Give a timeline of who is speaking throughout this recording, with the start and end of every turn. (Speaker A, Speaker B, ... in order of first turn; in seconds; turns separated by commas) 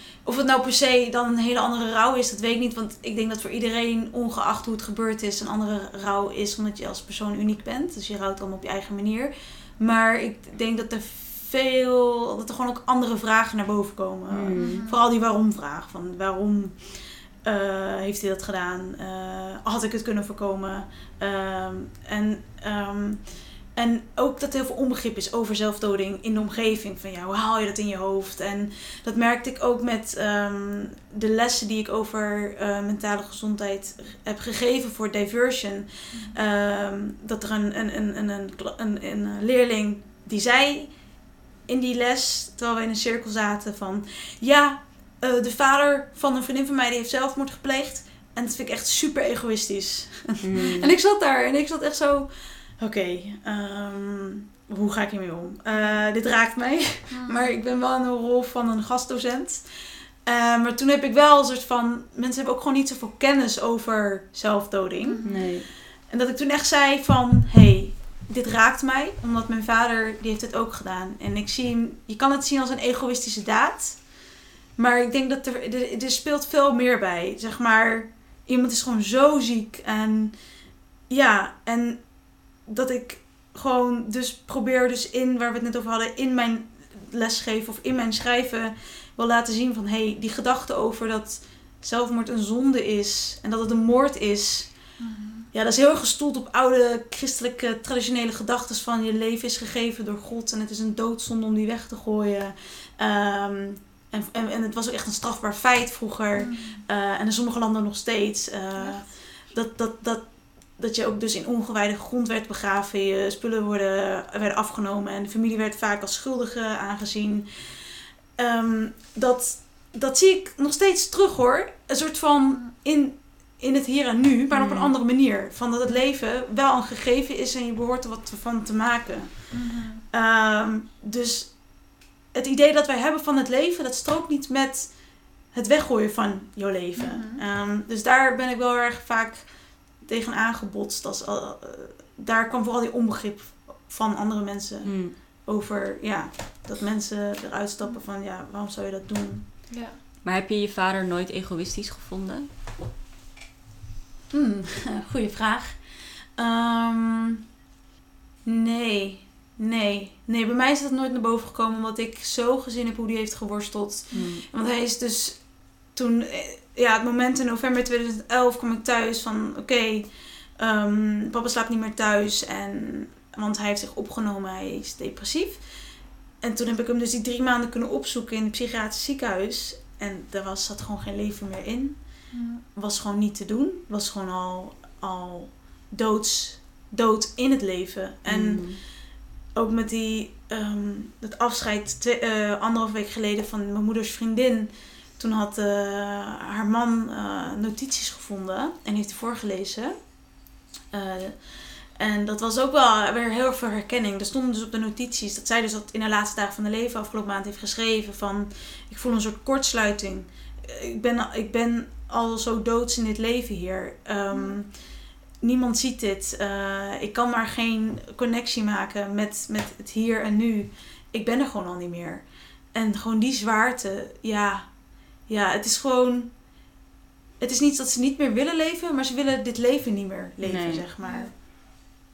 Speaker A: 0.2-80.3, Speaker B: 14.3-14.9, Speaker C: 14.6-15.0, Speaker C: 36.1-36.4, Speaker B: 50.4-50.9, Speaker C: 55.7-56.0, Speaker C: 57.1-57.5, Speaker C: 65.0-65.5, Speaker B: 65.2-65.7, Speaker A: 81.1-95.0, Speaker C: 95.0-95.5, Speaker A: 95.5-149.5, Speaker C: 106.3-106.8, Speaker C: 108.8-109.1, Speaker B: 124.5-124.9, Speaker C: 129.5-130.0, Speaker C: 137.0-137.4, Speaker B: 144.8-145.2, Speaker C: 149.7-150.0, Speaker B: 150.2-152.5, Speaker A: 154.3-157.4, Speaker A: 158.4-175.6, Speaker B: 164.1-164.4, Speaker A: 176.4-200.2, Speaker C: 182.3-182.6, Speaker B: 188.2-188.8, Speaker A: 200.9-226.5, Speaker A: 227.4-231.6, Speaker B: 230.4-230.8, Speaker C: 231.0-231.3